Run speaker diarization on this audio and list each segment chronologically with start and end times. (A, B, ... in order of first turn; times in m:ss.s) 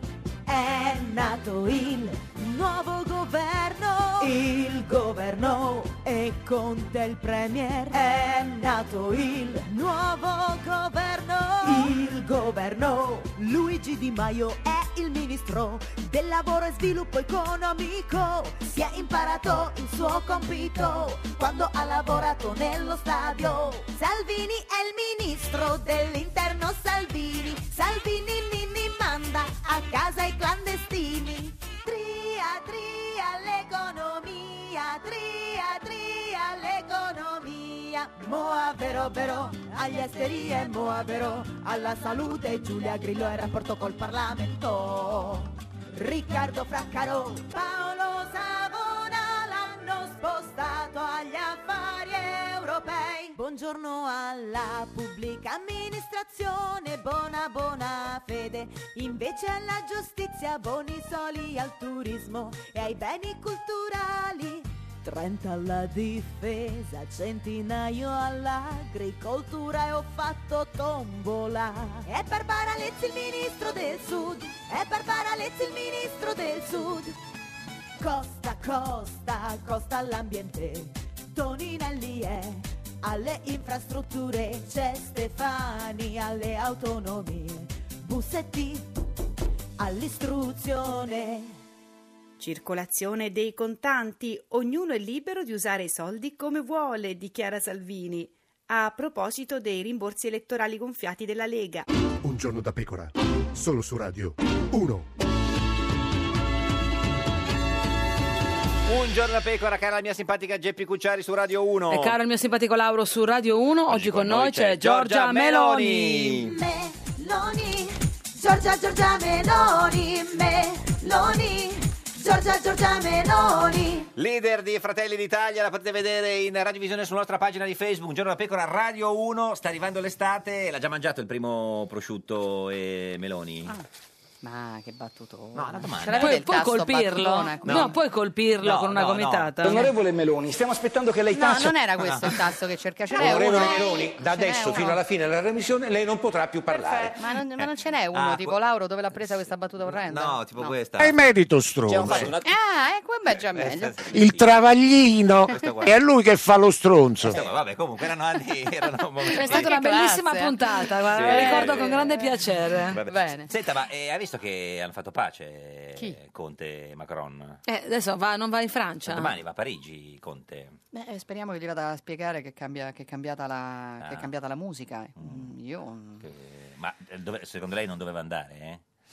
0:00.5-1:17.2 A
1:18.0-1:28.9 A
1:29.8-1:31.5 A
1:32.4-1:41.9 B
1:42.2-1:45.1 C
1:48.8-1:52.2 D
1:51.9-1:56.4 E
1:53.9-1:56.5 D
1:56.4-2:04.1 A
2:04.2-2:13.8 D
2:14.4-2:18.0 F
2:15.5-2:16.4 D
2:16.1-2:19.9 E
2:17.6-2:17.9 D
2:18.6-2:19.8 D
2:19.6-2:21.8 G
2:21.3-2:25.0 F
2:22.0-2:22.3 D
2:23.2-2:23.8 D
2:23.2-2:27.2 G
2:26.7-2:30.8 F
2:27.6-2:28.6 D
2:29.9-2:31.2 D
2:30.9-2:32.3 G
2:31.9-2:32.5 D
2:32.0-2:34.4 F
2:33.3-2:34.6 D
2:34.1-2:37.4 G
2:35.5-2:36.0 D
2:35.5-2:35.8 F
2:37.2-2:39.7 D
2:39.2-2:42.4 F
2:39.3-2:43.0 E
2:41.1-2:42.1 D
2:42.9-2:47.6 D
2:43.0-2:43.5 F
2:47.6-2:49.3 E
2:49.1-2:50.8 D
2:50.9-2:56.2 F
2:54.0-2:54.3 D
2:55.2-2:55.5 D
2:56.2-2:58.8 D